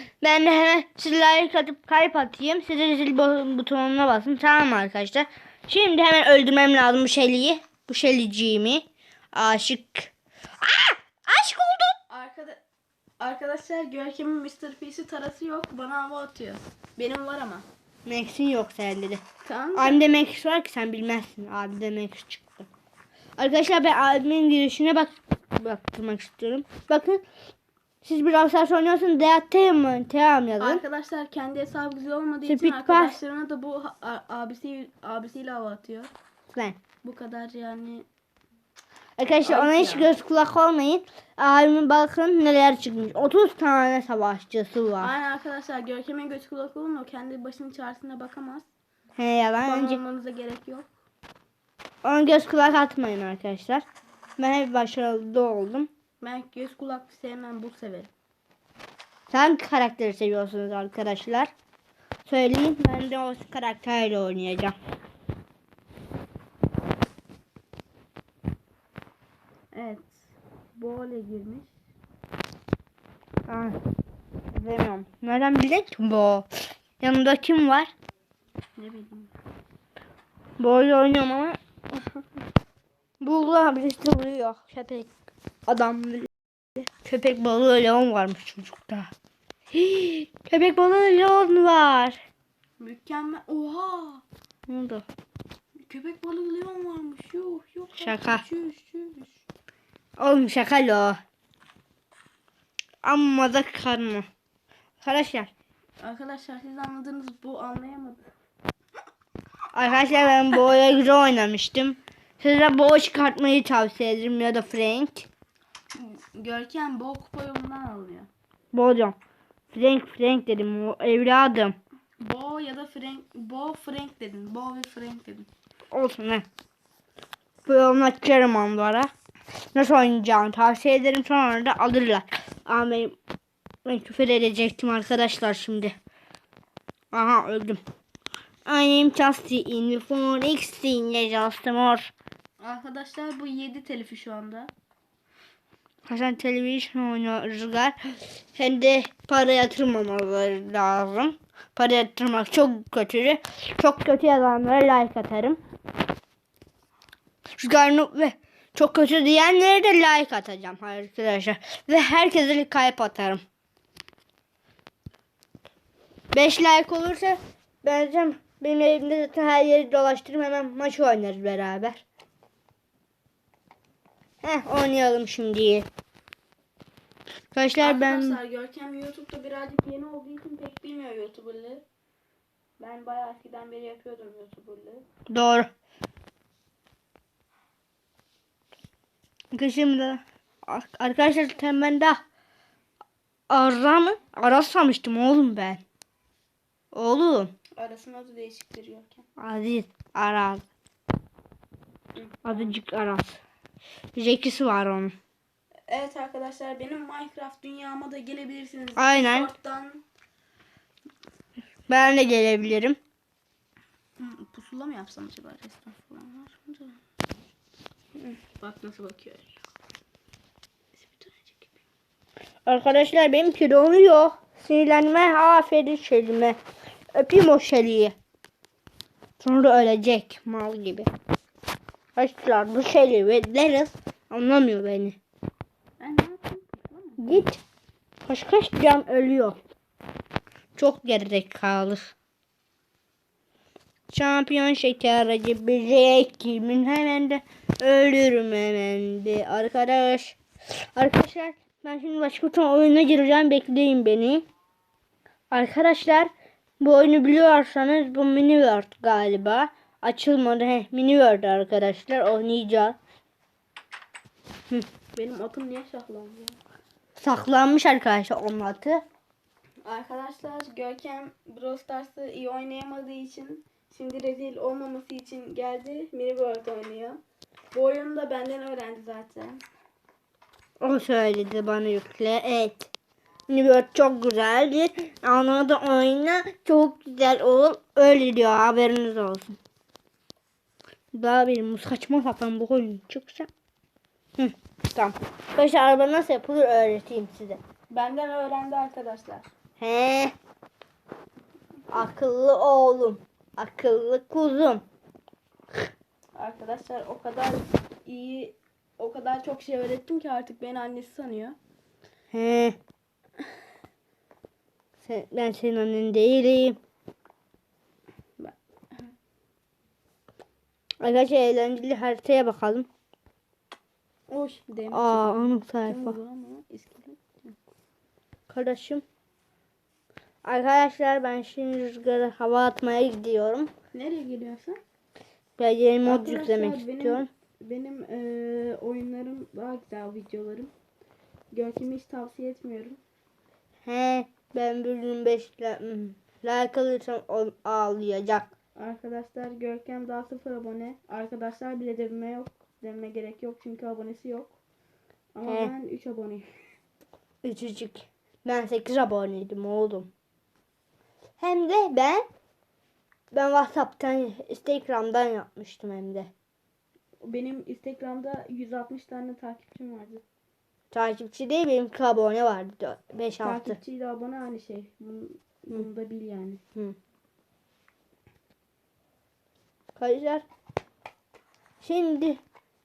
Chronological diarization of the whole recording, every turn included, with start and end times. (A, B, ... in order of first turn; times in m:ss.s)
0:00.2-0:12.0 A
0:12.1-0:12.6 B
0:13.2-0:17.7 B
0:18.1-0:19.2 A
0:19.4-0:20.1 B
0:19.8-0:22.7 A
0:23.4-0:27.2 A
0:28.0-0:30.8 A
0:30.6-0:36.1 B
0:32.4-0:33.2 A
0:36.5-0:36.8 A
0:37.0-0:38.1 B
0:39.2-0:45.1 A
0:39.4-0:40.1 B
0:45.0-0:48.7 B
0:49.2-0:50.0 A
0:49.6-0:50.9 B
0:52.0-0:53.8 A
0:54.4-0:55.9 A
0:56.2-0:58.1 B
0:59.3-1:01.5 A
1:02.3-1:04.8 A
1:09.7-1:10.2 B
1:10.8-1:11.7 B
1:13.5-1:13.8 A
1:14.5-1:16.5 A
1:17.0-1:17.9 A
1:18.8-1:19.3 B
1:20.6-1:21.6 A
1:23.2-1:25.1 A
1:25.7-1:26.3 A
1:27.0-1:29.1 A
1:29.7-1:32.2 A
1:32.8-1:34.2 B
1:34.7-1:35.0 A
1:35.9-1:39.4 B
1:38.0-1:38.4 A
1:40.2-1:41.2 A
1:43.0-1:44.3 A
1:45.0-1:45.5 A
1:46.0-1:48.2 B
1:49.7-1:55.3 A
1:56.0-1:58.3 B
1:58.7-1:59.2 A
1:59.7-2:01.8 A
2:02.2-2:05.5 B
2:05.9-2:06.4 A
2:07.7-2:09.1 A
2:09.8-2:13.2 A
2:13.8-2:15.9 A
2:17.1-2:17.8 A
2:18.7-2:22.1 A
2:22.6-2:24.7 B
2:26.1-2:28.0 A
2:28.5-2:35.6 A
2:37.6-2:43.4 A
2:46.3-2:52.0 A
2:54.4-2:55.9 A
2:57.5-2:58.4 A
2:57.8-3:01.8 B
3:02.8-3:05.0 B
3:05.3-3:05.7 A
3:09.5-3:12.2 A
3:13.5-3:15.8 A
3:16.9-3:17.5 A
3:17.8-3:19.2 B
3:19.4-3:20.6 A
3:22.2-3:22.7 B
3:22.4-3:23.4 A
3:24.2-3:25.1 A
3:25.9-3:30.0 B
3:29.0-3:29.5 A
3:31.9-3:33.0 A
3:34.2-3:37.0 B
3:38.2-3:39.6 B
3:41.0-3:41.7 B
3:42.7-3:46.6 A
3:47.2-3:48.1 A
3:49.4-3:51.1 A
3:52.2-3:55.2 A
3:56.0-3:57.4 B
3:57.2-3:57.6 A
3:58.2-3:59.6 A
4:00.8-4:02.1 A
4:04.1-4:10.4 A
4:11.0-4:14.5 A
4:15.5-4:23.0 A
4:25.2-4:26.6 B
4:27.2-4:29.0 A
4:29.8-4:37.2 B
4:37.7-4:39.6 B
4:40.8-4:42.9 A
4:43.5-4:49.6 A
4:51.1-4:53.5 A
4:54.4-4:57.6 A
4:57.9-4:59.4 B
4:59.8-5:00.3 A
5:01.9-5:04.8 A
5:06.4-5:11.6 B
5:12.3-5:12.8 A
5:15.1-5:16.8 A
5:18.4-5:19.1 B
5:21.0-5:22.9 A
5:24.3-5:27.6 B
5:24.9-5:26.2 A
5:28.5-5:29.0 A
5:30.4-5:33.7 A
5:33.9-5:34.8 B
5:35.6-5:37.3 A
5:36.0-5:40.7 B
5:41.5-5:43.0 B
5:43.9-5:48.5 A
5:48.8-5:54.5 B
5:55.3-5:56.5 B
5:55.5-5:55.7 A
5:57.4-6:00.1 A
6:01.4-6:02.3 A
6:03.3-6:06.3 A
6:07.2-6:10.2 B
6:10.9-6:13.8 A
6:13.4-6:16.6 B
6:20.0-6:20.4 A
6:21.8-6:22.4 A